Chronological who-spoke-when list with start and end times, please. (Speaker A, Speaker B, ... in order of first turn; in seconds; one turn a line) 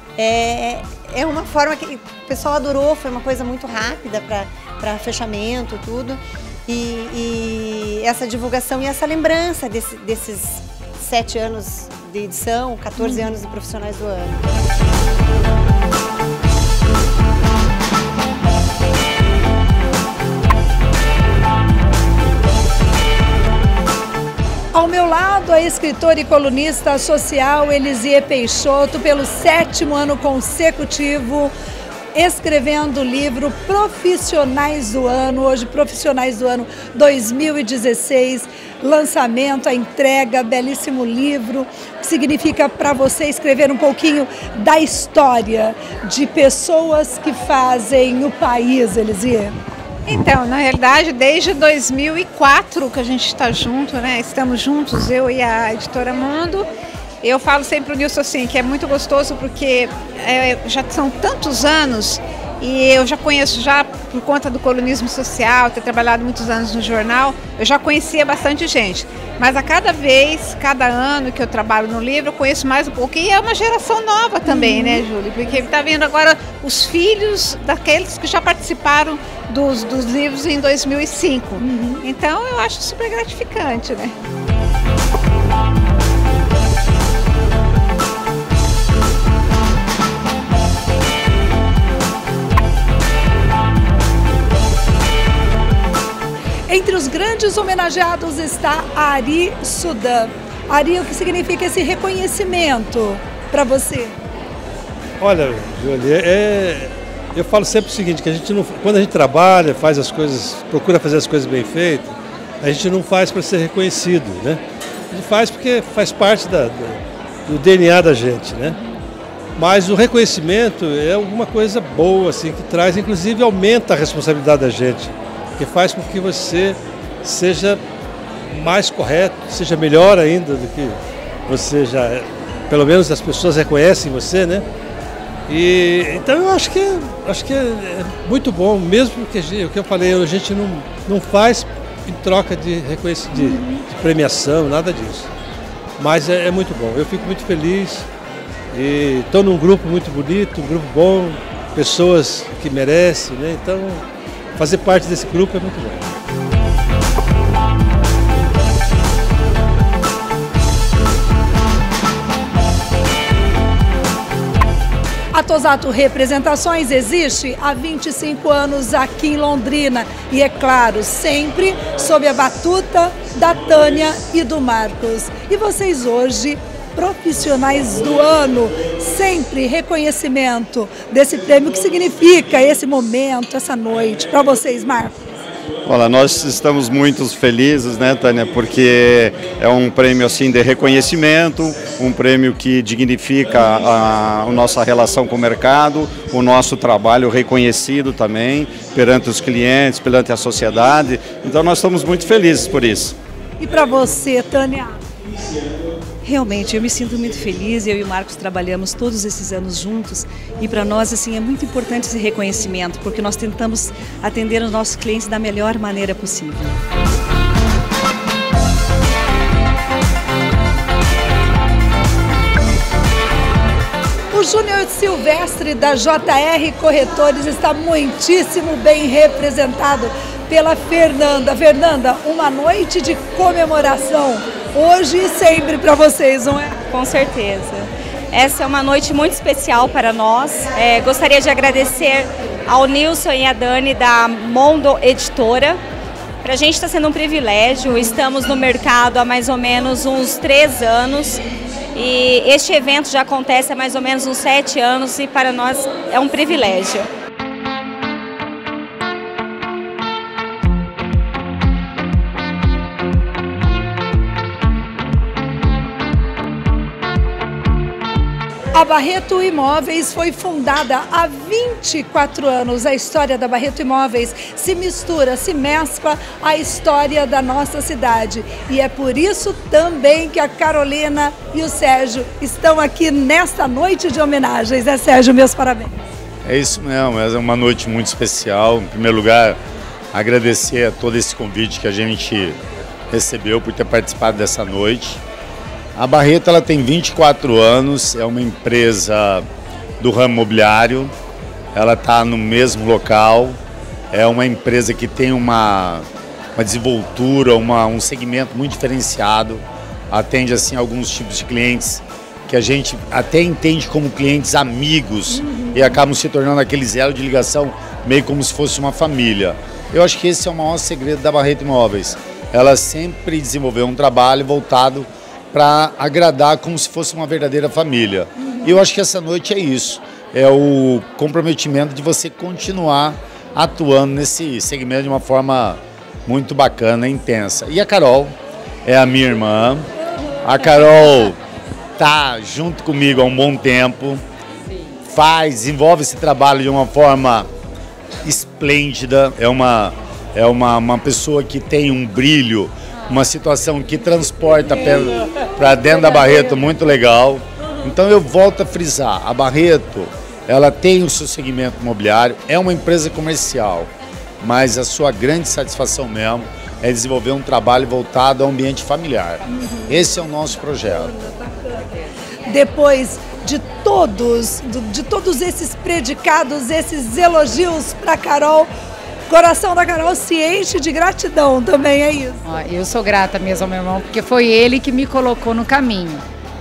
Speaker A: 0.2-14.4
Speaker B: 24.7-31.5
Speaker B: 32.1-49.6
Speaker C: 50.1-56.7
Speaker C: 57.2-84.1
Speaker B: 74.5-75.0
Speaker B: 81.6-82.0
Speaker B: 96.7-104.2
Speaker D: 105.2-118.8
Speaker D: 119.6-127.8
Speaker D: 128.5-134.7
Speaker D: 135.5-145.3
Speaker D: 146.0-148.1
Speaker D: 148.7-154.0
Speaker D: 154.6-156.1
Speaker B: 165.3-185.2
Speaker E: 185.8-203.2
Speaker B: 203.6-205.0
Speaker F: 206.2-216.8
Speaker B: 224.3-236.8
Speaker G: 236.9-245.8
Speaker G: 246.4-251.4
Speaker G: 251.9-257.1
Speaker B: 268.7-286.0
Speaker H: 286.4-289.6
Speaker H: 290.1-292.6
Speaker H: 293.1-295.2
Speaker H: 296.0-299.5
Speaker H: 300.0-301.1
Speaker H: 301.7-303.6
Speaker H: 304.1-339.9
Speaker B: 315.4-315.8
Speaker H: 340.4-341.4
Speaker H: 342.0-344.2
Speaker H: 345.1-347.5
Speaker H: 348.2-363.9
Speaker H: 364.4-371.1
Speaker B: 369.6-369.9
Speaker B: 371.1-371.9
Speaker B: 372.4-378.7
Speaker B: 379.3-382.4
Speaker I: 382.4-386.2